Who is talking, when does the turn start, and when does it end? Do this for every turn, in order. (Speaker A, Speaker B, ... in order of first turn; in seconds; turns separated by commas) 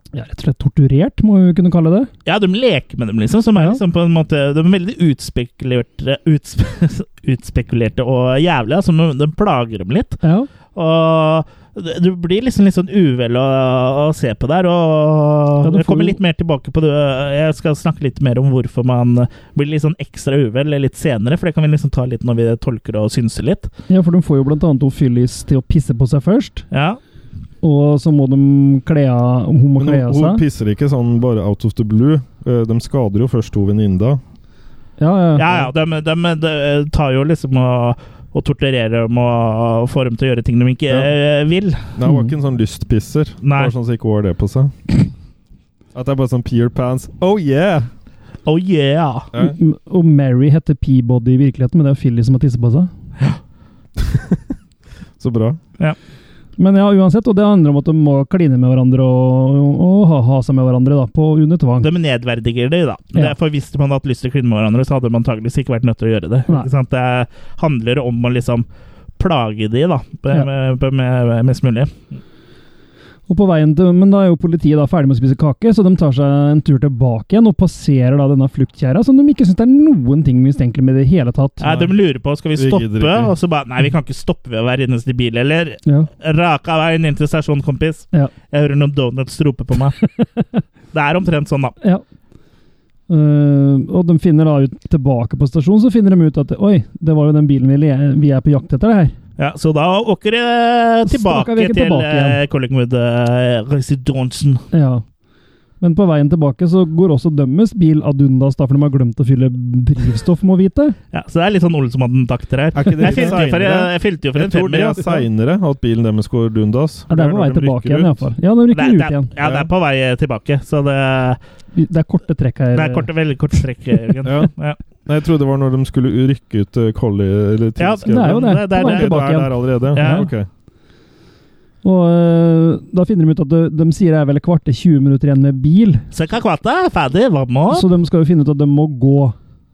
Speaker A: 0.1-2.1, Speaker B: 2.3-10.2, Speaker A: 10.2-10.5, Speaker B: 10.7-23.7, Speaker A: 15.6-16.2, Speaker A: 23.9-26.6, Speaker B: 26.7-27.0, Speaker A: 27.6-30.4, Speaker C: 29.8-34.2, Speaker A: 35.0-35.5, Speaker B: 35.4-41.9, Speaker C: 42.0-44.8, Speaker A: 42.0-42.3, Speaker B: 43.4-43.7, Speaker C: 46.0-47.9, Speaker B: 48.5-49.3, Speaker A: 49.4-52.9, Speaker C: 54.0-54.4, Speaker C: 55.2-55.6, Speaker A: 56.6-61.9, Speaker B: 61.8-68.7, Speaker B: 69.2-71.9, Speaker A: 73.3-81.9, Speaker B: 81.6-90.0, Speaker C: 82.5-83.3, Speaker A: 90.0-90.6, Speaker B: 90.9-91.8, Speaker A: 93.1-99.2, Speaker B: 99.4-104.6, Speaker A: 101.1-102.4, Speaker A: 104.7-105.0, Speaker A: 105.8-111.0, Speaker B: 111.1-115.1, Speaker C: 112.7-118.3, Speaker A: 112.9-113.4, Speaker A: 117.1-119.3, Speaker B: 118.7-121.4, Speaker C: 119.4-119.7, Speaker A: 121.8-123.1, Speaker B: 122.7-124.8, Speaker C: 124.2-124.5, Speaker C: 125.0-130.5, Speaker B: 127.8-130.3, Speaker A: 128.1-130.3, Speaker A: 131.8-136.0, Speaker B: 136.1-137.9, Speaker A: 137.7-139.4